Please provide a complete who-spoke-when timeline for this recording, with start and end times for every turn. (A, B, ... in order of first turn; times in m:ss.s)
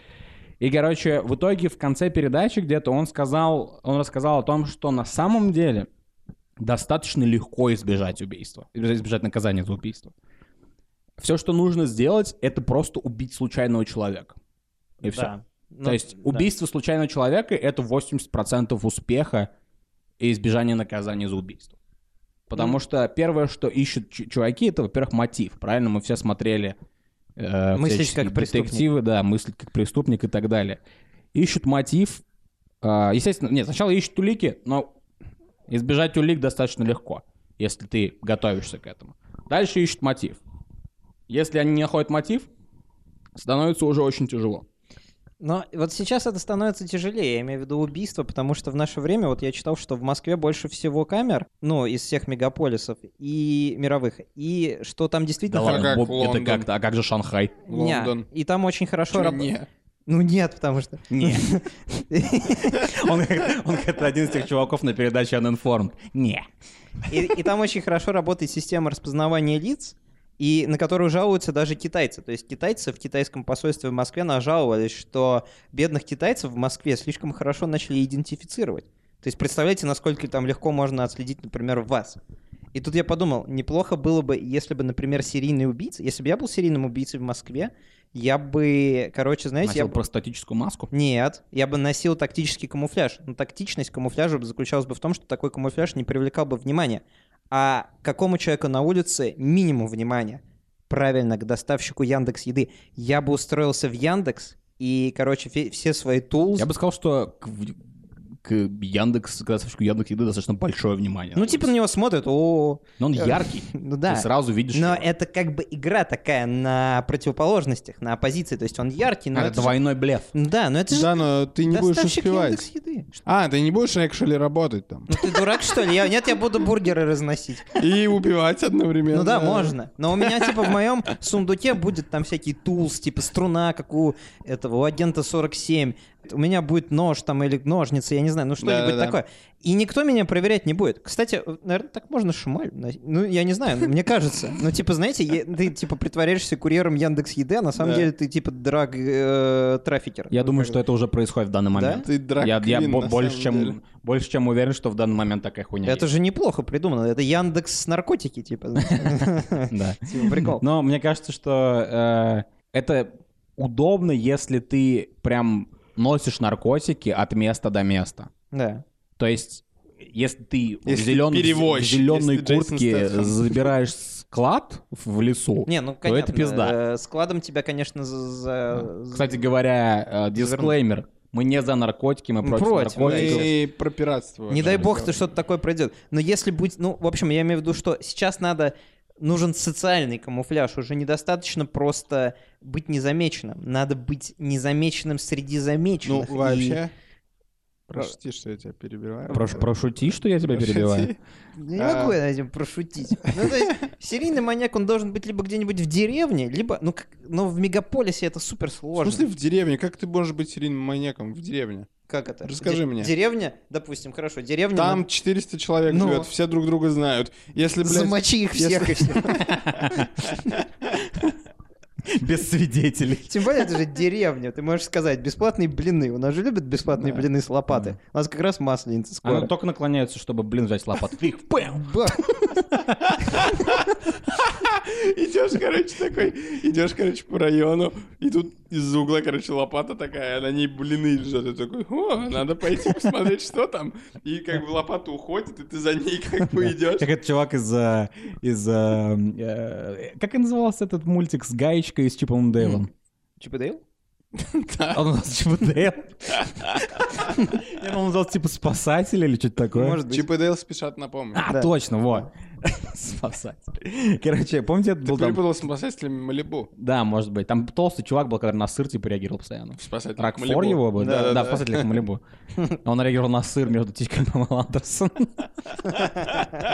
0:00.6-0:05.9 A
0:06.6-0:10.1 A
0:11.2-0:14.4 A
0:15.0-0:15.3 A
0:15.0-0:16.5 B
0:15.8-0:19.5 A
0:20.2-0:21.7 A
0:22.5-0:26.8 A
0:27.4-0:30.8 A
0:27.7-0:28.8 B
0:31.3-0:32.2 A
0:32.8-0:34.9 A
0:35.7-0:40.4 A
0:41.3-0:42.5 A
0:43.4-0:44.6 A
0:45.4-0:56.0 B
0:55.5-0:57.6 A
0:55.6-0:56.7 C
0:57.7-0:58.3 C
0:57.7-0:59.5 B
0:59.1-0:59.7 C
1:00.1-1:02.9 B
1:01.1-1:01.5 A
1:02.7-1:06.5 A
1:07.1-1:22.2 B
1:22.7-1:30.0 B
1:29.6-1:30.9 A
1:30.9-1:46.7 B
1:46.6-1:47.8 A
1:48.4-1:51.7 A
1:51.4-1:59.8 B
1:53.0-1:55.1 A
1:59.3-2:00.3 A
2:00.3-2:01.1 B
2:00.9-2:02.6 C
2:01.7-2:03.1 B
2:03.2-2:05.4 C
2:05.1-2:07.8 B
2:07.8-2:10.7 C
2:09.1-2:30.8 B
2:18.6-2:19.2 C
2:27.8-2:28.1 C
2:30.3-2:36.1 A
2:31.7-2:32.0 B
2:32.0-2:33.8 C
2:35.8-2:40.6 B
2:38.8-2:48.3 A
2:48.5-2:48.8 B
2:49.2-2:56.8 A
2:50.9-2:53.7 C
2:55.7-2:59.5 B
2:58.7-3:03.5 A
3:00.4-3:00.8 B
3:02.4-3:03.5 B
3:03.0-3:05.3 C
3:04.5-3:16.8 B
3:04.6-3:04.9 A
3:16.0-3:16.9 C
3:17.9-3:19.7 C
3:19.3-3:21.1 A
3:20.5-3:21.2 C
3:21.6-3:29.3 B
3:21.8-3:22.2 C
3:23.3-3:23.7 C
3:29.0-3:31.9 C
3:32.1-3:35.0 B
3:32.5-3:33.1 C
3:34.8-3:40.0 C
3:35.9-3:36.3 B
3:37.8-3:39.4 B
3:39.5-3:40.1 A
3:42.1-3:43.4 A
3:43.2-3:49.5 B
3:47.0-3:47.2 C
3:49.2-3:52.9 A
3:51.7-3:52.3 B
3:53.3-4:07.1 C
4:06.5-4:12.9 A
4:13.4-4:13.8 B
4:14.4-4:15.0 C
4:14.9-4:20.0 A
4:16.4-4:16.8 C
4:19.7-4:20.3 B
4:20.1-4:21.4 C
4:21.3-4:25.4 A
4:25.0-4:26.7 C
4:26.8-4:32.2 A
4:29.8-4:32.0 C
4:31.0-4:31.4 B
4:32.8-4:35.5 A